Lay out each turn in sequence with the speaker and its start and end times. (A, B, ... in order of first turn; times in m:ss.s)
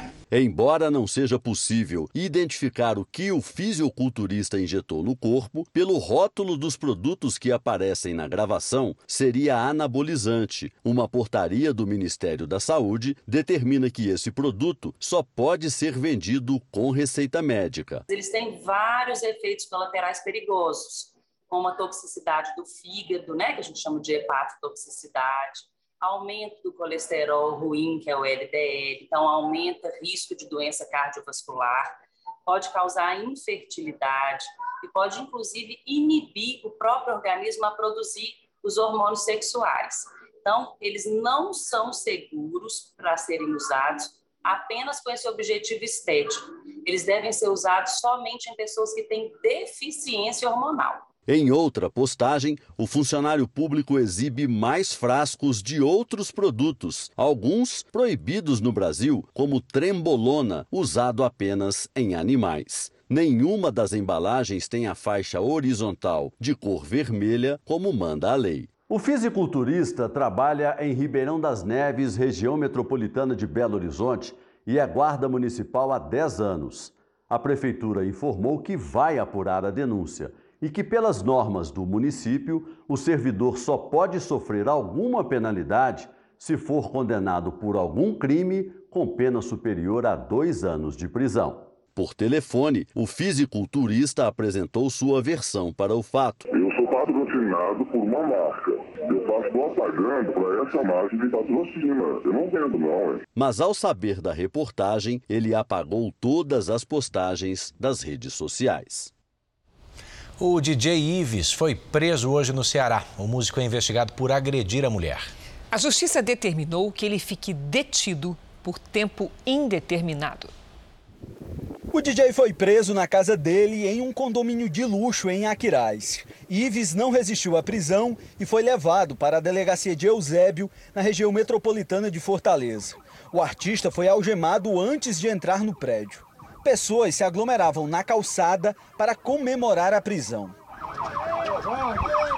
0:00.3-0:18.0 A
0:18.1-0:51.1 B
0:51.3-1:36.4 A
1:36.5-1:43.2 C
1:43.4-1:49.1 A
1:50.4-1:55.3 D
1:55.7-2:00.5 E
2:01.9-2:20.5 F